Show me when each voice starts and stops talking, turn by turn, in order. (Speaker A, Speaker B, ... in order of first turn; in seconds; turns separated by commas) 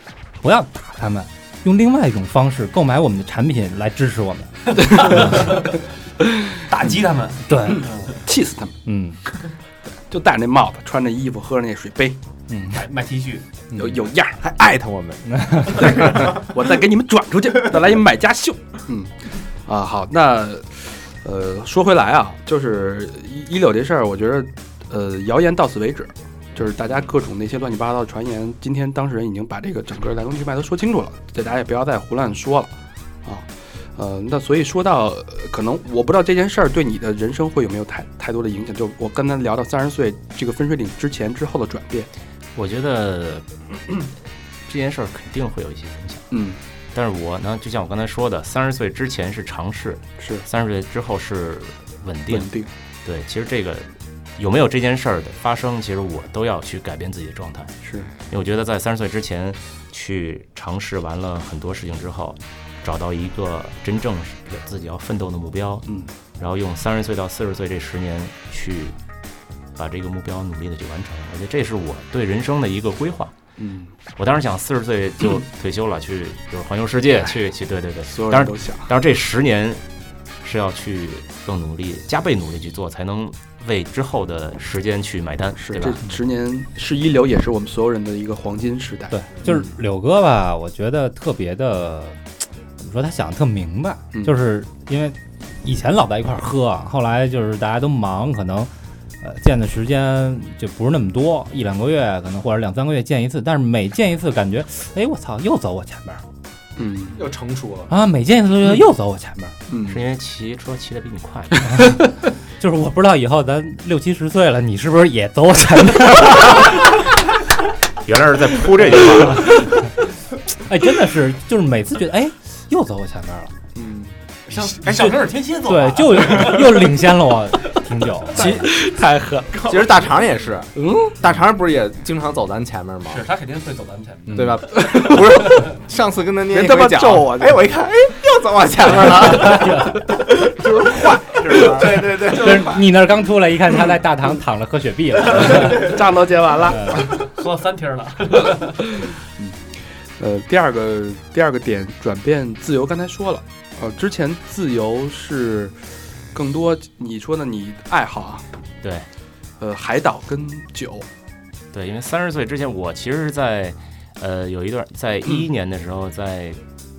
Speaker A: 0.4-5.2, Speaker B: 5.2-5.7, Speaker B: 6.7-8.2, Speaker A: 7.5-7.9, Speaker C: 7.8-8.7, Speaker A: 8.8-9.2, Speaker C: 9.9-12.2, Speaker A: 12.5-12.8, Speaker B: 12.7-13.4, Speaker C: 13.7-14.4, Speaker D: 14.4-16.4, Speaker A: 15.4-15.8, Speaker C: 15.7-42.1, Speaker E: 42.5-44.1, Speaker E: 44.7-46.3, Speaker C: 46.3-46.6, Speaker E: 46.9-52.5, Speaker C: 50.2-50.4, Speaker C: 52.3-52.7, Speaker E: 53.0-57.7, Speaker C: 57.8-58.1, Speaker E: 58.3-69.0, Speaker E: 69.8-73.3, Speaker C: 73.6-73.9, Speaker E: 74.2-79.8, Speaker C: 78.1-78.9, Speaker E: 80.4-86.0, Speaker C: 85.6-89.6, Speaker A: 89.1-92.2, Speaker A: 92.8-98.7, Speaker A: 99.2-106.2, Speaker C: 106.8-107.2, Speaker D: 107.2-107.9, Speaker A: 107.9-109.5, Speaker C: 109.7-110.0, Speaker E: 109.9-111.7, Speaker A: 112.6-116.7, Speaker E: 118.0-119.6, Speaker A: 120.6-123.5, Speaker C: 123.7-124.1, Speaker B: 124.5-127.0, Speaker A: 124.8-128.7, Speaker C: 128.3-129.9, Speaker D: 129.5-133.2, Speaker C: 130.7-131.2, Speaker B: 133.1-134.8, Speaker D: 134.3-142.9, Speaker C: 134.7-135.2, Speaker C: 136.5-137.6, Speaker A: 141.9-145.9, Speaker C: 145.4-147.1, Speaker A: 146.8-147.0, Speaker B: 147.0-148.8, Speaker C: 149.0-149.6, Speaker C: 150.2-158.4, Speaker C: 159.6-161.1, Speaker E: 161.7-166.6